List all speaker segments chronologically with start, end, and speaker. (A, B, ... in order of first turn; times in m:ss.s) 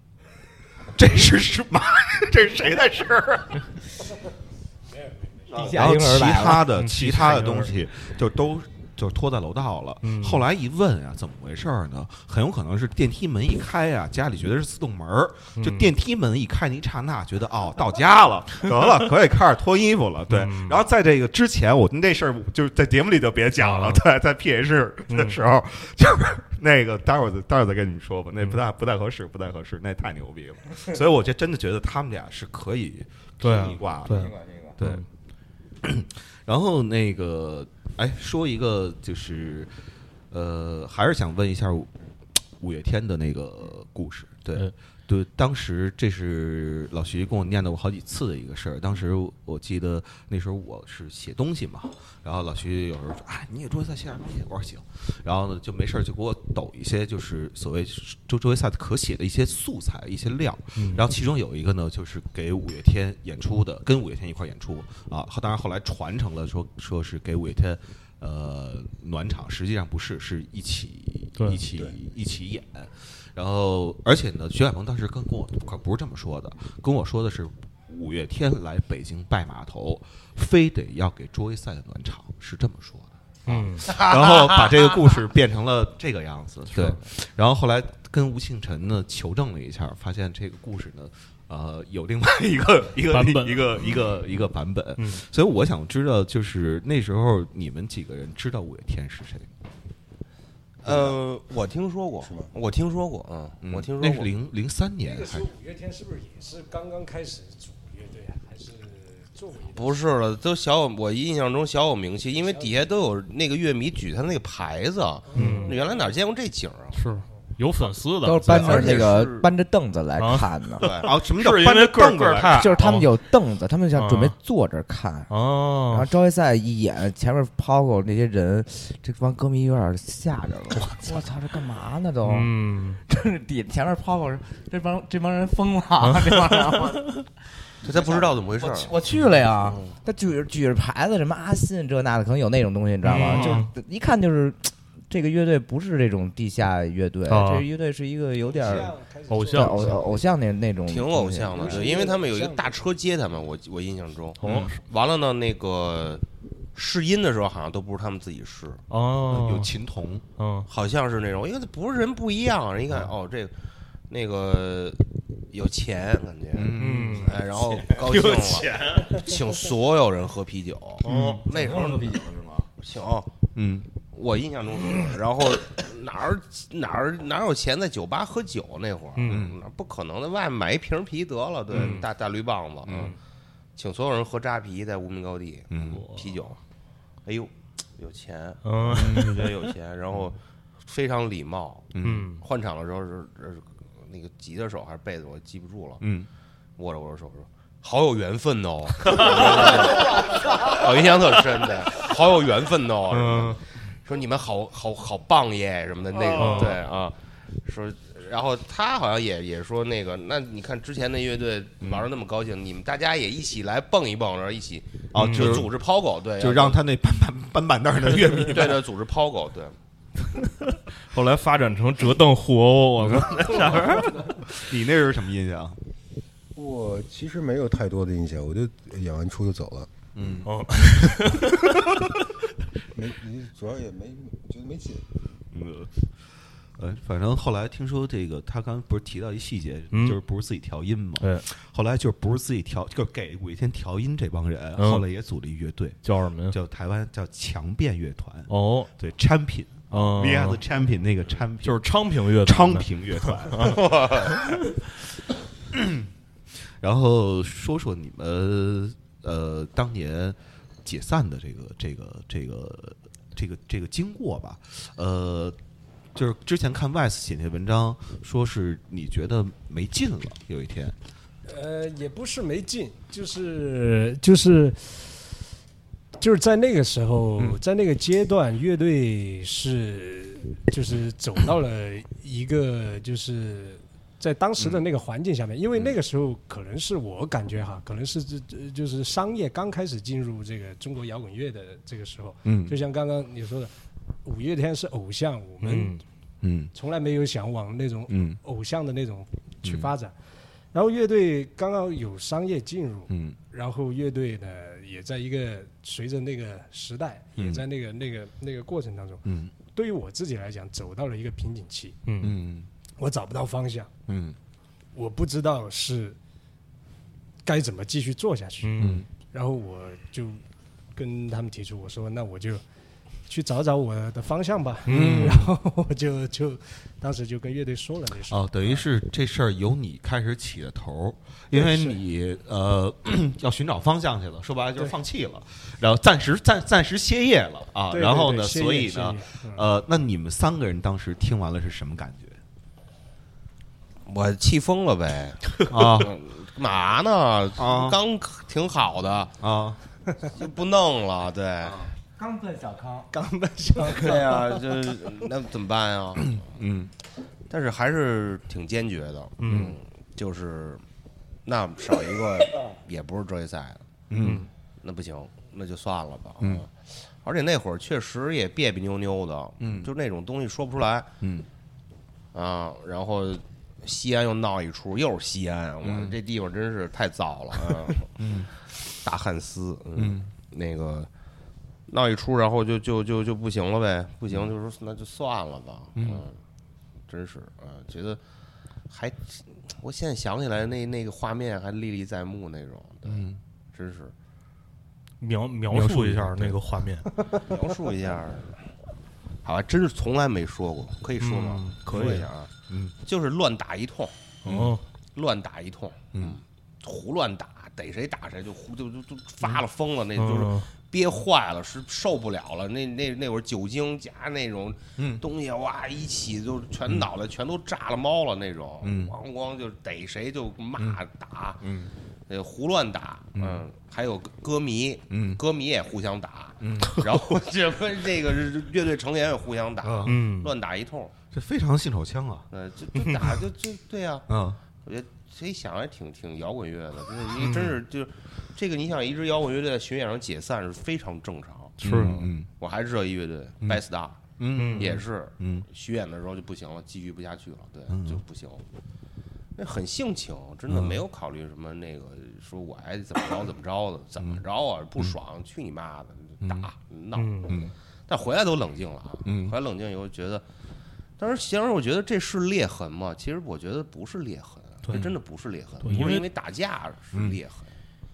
0:01.0-0:03.7 A
0:05.5-0:35.0 A
0:05.5-0:06.7 B
0:06.7-0:07.8 C
0:10.0-0:10.4 C
0:15.6-0:15.9 C
0:20.3-0:20.8 C
0:23.6-0:24.0 C
0:25.1-0:25.4 C
0:33.4-0:35.0 C
0:34.1-0:34.8 B
0:35.8-0:39.7 A
0:40.3-0:41.9 A
0:42.6-1:39.5 A
1:00.8-1:01.0 C
1:23.5-1:23.9 C
1:23.9-1:24.3 D
1:33.1-1:33.9 C
1:35.0-1:35.2 C
1:40.8-1:44.3 D
1:40.9-1:41.2 E
1:42.2-1:42.5 E
1:43.6-1:45.5 A
1:45.0-1:50.0 F
1:49.7-1:57.0 D
1:52.5-1:52.8 F
1:55.3-1:56.1 F
1:55.4-1:55.8 C
1:57.0-1:59.2 C
1:58.2-2:00.9 B
1:58.5-1:59.5 D
2:00.2-2:03.1 C
2:00.8-2:01.1 D
2:01.0-2:02.7 A
2:02.5-2:05.3 B
2:04.0-2:04.4 C
2:05.3-2:06.1 C
2:05.9-2:12.5 B
2:12.2-2:13.0 C
2:13.1-2:17.3 B
2:16.1-2:16.6 C
2:17.8-2:28.9 B
2:17.8-2:18.9 D
2:23.0-2:23.7 C
2:27.3-2:27.7 C
2:28.4-2:30.3 F
2:29.3-2:30.0 C
2:29.5-2:31.9 B
2:30.9-2:36.2 D
2:31.5-2:32.8 F
2:34.4-2:34.8 C
2:34.4-2:34.7 A
2:36.8-2:38.8 D
2:38.9-2:39.7 C
2:39.3-2:40.2 A
2:40.4-2:40.7 C
2:40.7-2:43.5 D
2:44.1-2:45.0 D
2:45.5-2:52.2 D
2:46.5-2:47.4 A
2:46.8-2:47.4 C
2:47.6-2:48.0 B
2:48.0-2:49.1 C
2:51.0-2:51.4 C
2:51.1-2:51.4 A
2:51.5-2:52.7 B
2:52.8-2:53.3 D
2:53.6-2:53.9 A
2:54.1-3:03.2 D
2:59.2-2:59.5 C
2:59.3-2:59.6 A
3:01.7-3:02.1 C
3:03.8-3:06.6 D
3:05.7-3:06.0 A
3:05.8-3:06.4 C
3:07.2-3:16.0 D
3:08.6-3:09.7 C
3:08.9-3:09.4 A
3:11.9-3:12.3 A
3:12.0-3:12.4 C
3:16.0-3:16.3 A
3:16.8-3:36.8 D
3:19.1-3:19.9 C
3:23.1-3:23.6 C
3:26.3-3:26.8 C
3:26.4-3:26.7 A
3:31.8-3:32.1 A
3:35.1-3:35.8 A
3:35.2-3:35.7 C
3:36.4-3:38.8 A
3:38.3-3:39.8 D
3:40.6-3:44.4 C
3:43.0-3:45.8 A
3:46.6-3:49.9 E
3:50.2-3:50.5 A
3:50.5-3:51.9 C
3:52.9-3:55.1 E
3:55.5-3:55.9 A
3:56.8-4:11.8 A
3:59.9-4:00.2 C
4:01.2-4:01.4 C
4:04.8-4:05.0 C
4:06.0-4:06.6 C
4:08.5-4:08.9 C
4:09.9-4:10.6 C
4:11.6-4:14.8 C
4:12.4-4:14.0 A
4:13.8-4:14.3 D
4:15.7-4:16.1 A
4:16.8-4:25.6 A
4:26.1-4:31.0 A
4:31.5-4:35.3 F
4:36.2-4:53.7 F
4:52.4-4:52.8 A
4:54.2-4:56.0 F
4:55.6-4:56.0 C
4:56.4-4:56.7 A
4:56.7-5:00.1 F
4:58.1-4:58.4 A
4:59.6-4:59.9 A
5:00.7-5:12.0 F
5:03.1-5:03.4 A
5:07.4-5:07.6 A
5:09.2-5:09.5 A
5:12.1-5:12.4 C
5:12.2-5:12.7 A
5:13.0-5:13.9 F
5:14.1-5:14.4 A
5:14.9-5:16.2 F
5:17.4-5:20.4 F
5:18.6-5:19.0 C
5:18.8-5:19.1 A
5:21.0-5:22.6 F
5:23.3-5:28.9 F
5:24.9-5:25.5 C
5:24.9-5:25.5 A
5:28.3-5:42.4 A
5:31.5-5:32.0 F
5:37.9-5:39.7 F
5:44.1-5:49.4 D
5:45.7-5:46.1 A
5:47.6-5:48.0 A
5:49.4-5:49.8 A
5:50.2-5:51.9 D
5:52.2-5:53.1 B
5:53.1-5:54.5 F
5:53.8-5:56.5 D
5:56.2-5:56.9 A
5:57.5-6:00.8 D
5:59.4-5:59.8 C
6:01.4-6:03.9 D
6:04.1-6:04.5 A
6:04.2-6:04.5 C
6:04.8-6:11.1 D
6:09.6-6:09.9 A
6:11.2-6:11.5 A
6:12.3-6:18.2 D
6:15.8-6:16.2 A
6:18.2-6:18.5 A
6:18.9-6:21.1 D
6:20.0-6:20.3 A
6:21.9-6:26.4 D
6:26.0-6:26.3 A
6:27.1-6:28.2 D
6:28.9-6:34.1 D
6:33.0-6:33.4 A
6:35.2-6:37.1 C
6:35.7-6:36.6 A
6:37.4-6:38.6 D
6:39.4-6:44.2 D
6:41.2-6:42.3 C
6:41.9-6:43.0 A
6:44.4-6:44.8 C
6:44.5-6:44.8 A
6:45.2-7:01.6 D
6:46.2-6:46.4 A
6:50.2-6:50.7 C
6:55.0-6:55.2 A
6:58.8-6:59.2 A
7:01.6-7:01.9 A
7:02.3-7:11.2 D
7:03.4-7:03.7 A
7:05.1-7:05.4 A
7:06.6-7:07.1 A
7:09.8-7:10.2 A
7:10.0-7:10.6 C
7:11.3-7:12.5 A
7:12.5-7:14.3 D
7:14.3-7:14.6 A
7:14.8-7:28.6 D
7:17.4-7:17.8 A
7:21.8-7:22.3 C
7:21.8-7:22.5 A
7:24.4-7:25.7 A
7:24.6-7:25.0 C
7:27.9-7:28.2 A
7:29.6-7:40.4 D
7:30.7-7:31.0 A
7:36.4-7:36.7 A
7:37.1-7:37.6 C
7:37.5-7:37.7 A
7:39.2-7:39.6 A
7:41.2-7:47.7 D
7:44.8-7:45.1 C
7:45.8-7:46.2 C
7:45.9-7:46.2 A
7:47.1-7:47.4 A